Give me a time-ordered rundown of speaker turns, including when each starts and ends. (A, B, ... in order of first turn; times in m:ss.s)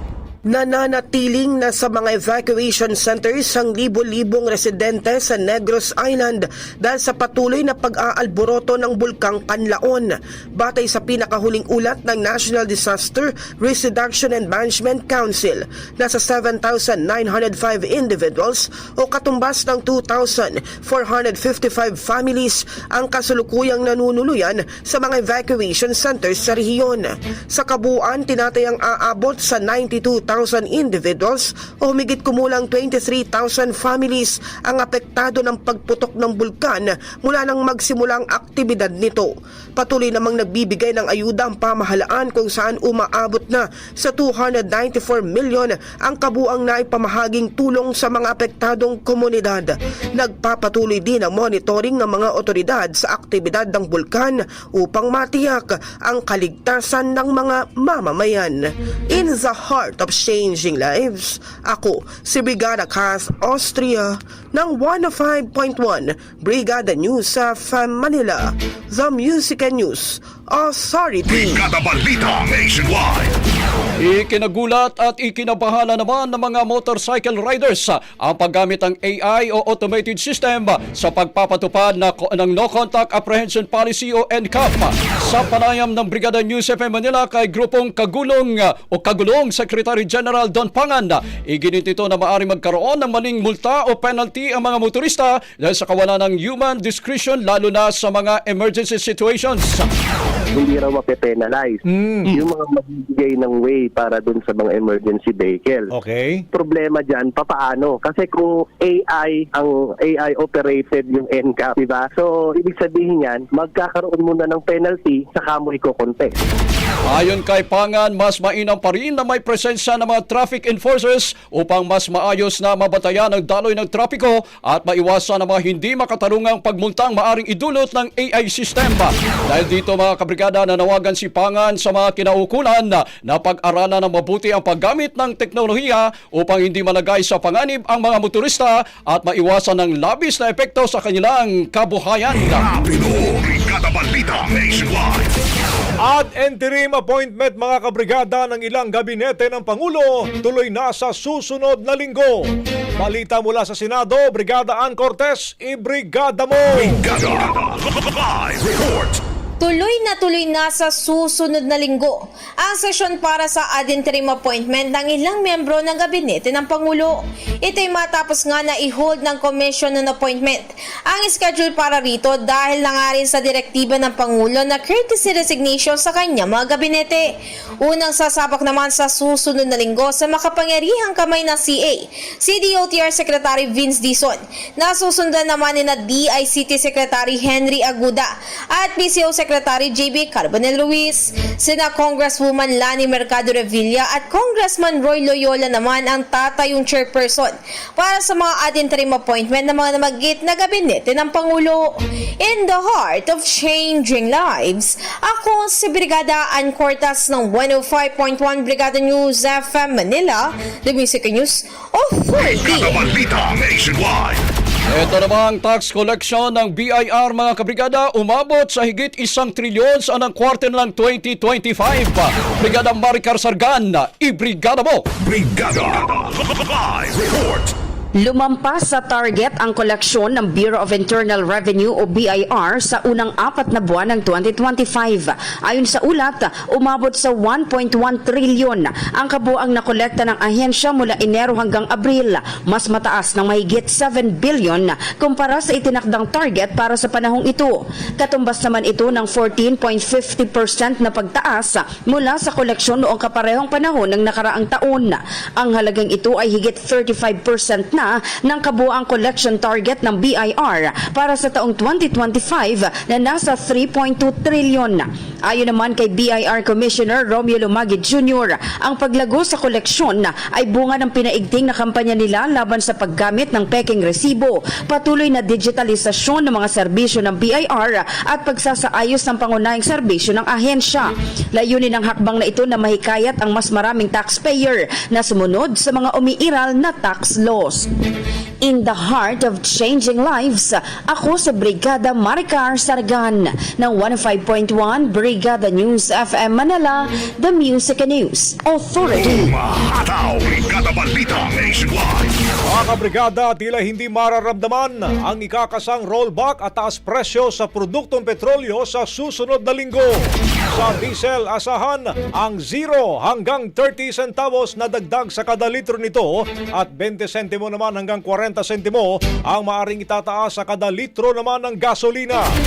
0:00.4-1:11.6 A
1:11.2-1:13.3 B
1:14.0-1:39.9 C
1:40.5-1:45.9 D
1:41.9-1:42.3 E
1:45.9-1:46.4 E
1:46.5-1:56.3 D
1:57.0-2:22.7 C
2:22.4-2:25.3 B
2:26.0-2:32.4 E
2:33.0-2:37.0 E
2:36.7-2:39.2 B
2:39.6-2:57.2 F
2:57.8-3:33.0 F
3:32.4-3:34.4 B
3:34.9-3:45.1 C
3:45.2-3:47.7 B
3:48.2-4:47.9 G
4:48.6-4:59.5 G
4:59.1-5:02.4 B
5:02.7-5:22.4 E